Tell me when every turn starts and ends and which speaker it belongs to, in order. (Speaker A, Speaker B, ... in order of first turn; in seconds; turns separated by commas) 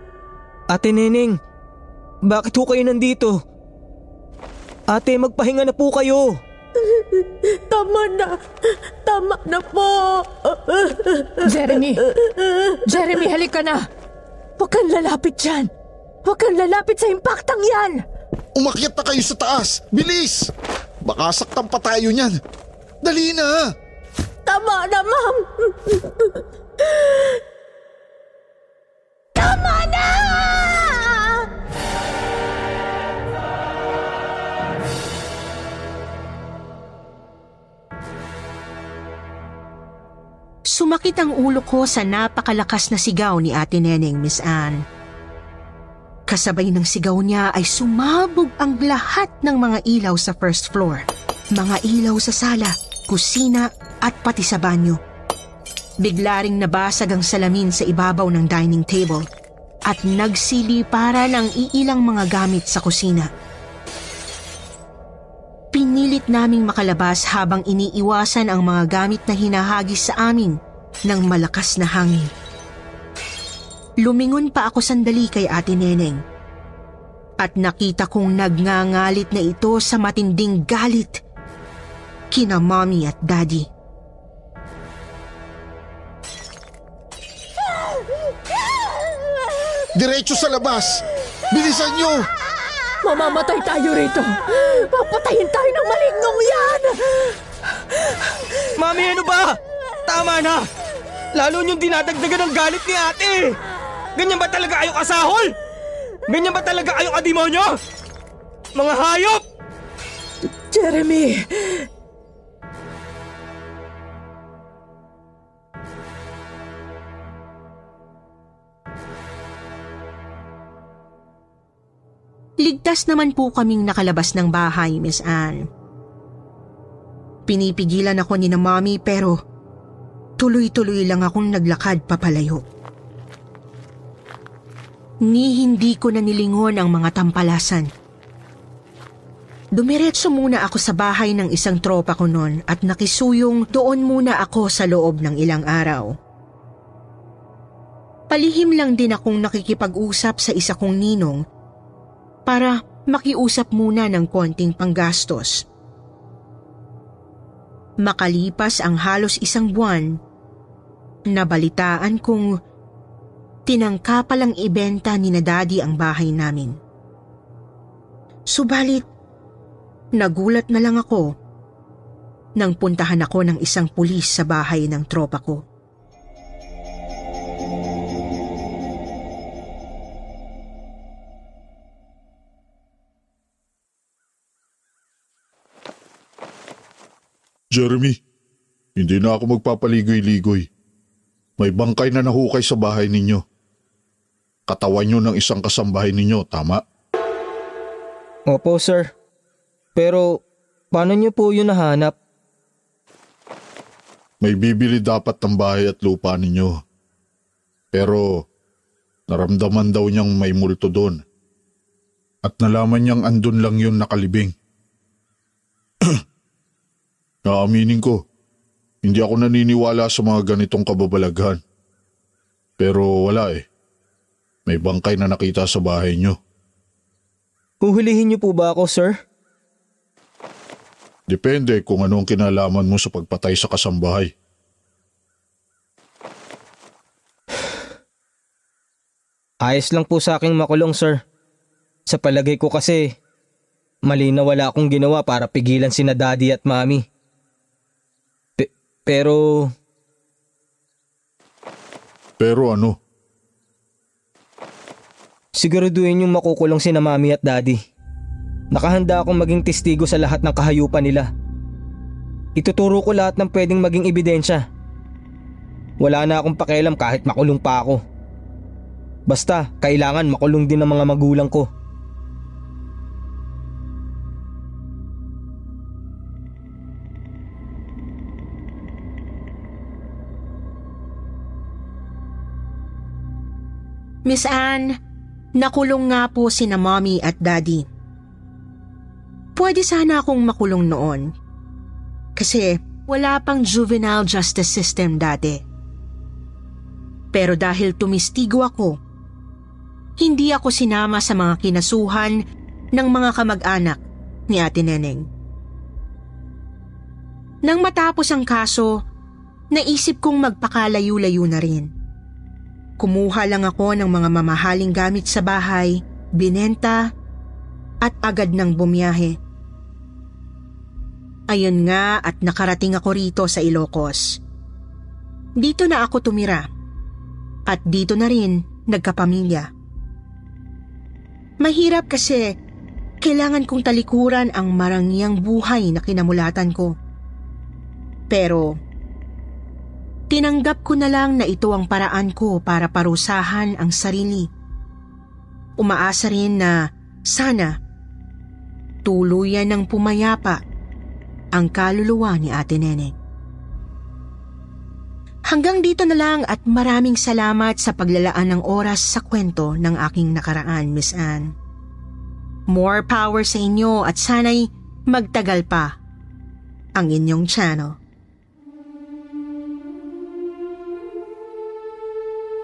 Speaker A: 0.7-1.4, Speaker A: 2.3-3.4, Speaker A: 4.9-6.4, Speaker B: 6.8-13.2, Speaker C: 11.4-12.0, Speaker C: 12.9-13.9, Speaker C: 14.6-15.7, Speaker C: 16.2-18.0, Speaker D: 18.6-20.5, Speaker D: 21.0-22.3, Speaker D: 23.0-23.7, Speaker B: 24.5-27.3, Speaker B: 29.4-31.5, Speaker E: 40.7-44.8, Speaker E: 46.3-55.0, Speaker E: 56.0-59.3, Speaker E: 59.9-63.3, Speaker E: 65.7-72.3, Speaker E: 74.0-76.2, Speaker E: 77.4-81.2, Speaker E: 82.3-83.7, Speaker D: 90.0-92.3, Speaker C: 93.0-94.4, Speaker B: 94.6-97.3, Speaker A: 98.8-100.7, Speaker A: 101.3-103.6, Speaker A: 104.2-105.5, Speaker A: 106.3-107.8, Speaker A: 108.8-109.4, Speaker C: 110.8-111.3, Speaker B: 110.9-111.2, Speaker E: 122.6-125.6, Speaker E: 127.5-129.4, Speaker E: 130.4-132.6, Speaker E: 135.2-137.9, Speaker E: 139.7-146.1, Speaker E: 148.3-151.4, Speaker E: 152.5-155.7, Speaker E: 158.0-160.2, Speaker E: 161.3-162.5, Speaker E: 163.7-166.8, Speaker E: 168.5-169.1, Speaker E: 170.2-171.3, Speaker E: 172.6-175.6, Speaker D: 187.7-188.2, Speaker D: 189.0-190.7, Speaker D: 191.6-193.4, Speaker D: 194.7-196.8, Speaker A: 198.5-199.1, Speaker A: 200.0-200.4, Speaker A: 200.9-202.1, Speaker D: 204.4-206.8, Speaker D: 207.9-208.5, Speaker D: 209.3-211.2, Speaker D: 212.4-214.5, Speaker D: 217.4-218.2, Speaker D: 219.0-221.6, Speaker D: 222.8-223.7, Speaker D: 224.7-226.4, Speaker A: 227.8-229.2, Speaker D: 231.3-234.3, Speaker A: 239.7-241.2, Speaker A: 242.1-243.1, Speaker A: 244.1-247.1, Speaker A: 248.6-249.7, Speaker D: 252.4-253.0, Speaker A: 255.6-257.8, Speaker A: 258.7-261.3, Speaker A: 262.6-264.6, Speaker A: 266.0-268.0, Speaker A: 269.3-271.7, Speaker E: 284.3-284.9, Speaker E: 285.6-287.9, Speaker E: 289.6-291.3, Speaker E: 292.4-295.6, Speaker E: 297.3-299.0, Speaker E: 300.2-302.4, Speaker E: 302.9-305.3, Speaker E: 307.6-309.0, Speaker E: 309.7-311.9, Speaker E: 313.0-317.1, Speaker E: 318.0-319.4, Speaker E: 321.5-324.4, Speaker E: 325.6-326.7, Speaker E: 327.7-329.7, Speaker E: 331.6-332.6, Speaker E: 333.2-337.0, Speaker E: 338.3-338.8, Speaker E: 340.3-344.5, Speaker E: 345.8-347.8, Speaker E: 349.1-350.6, Speaker E: 351.5-353.1, Speaker E: 355.5-361.5, Speaker E: 362.7-365.9, Speaker E: 366.9-368.0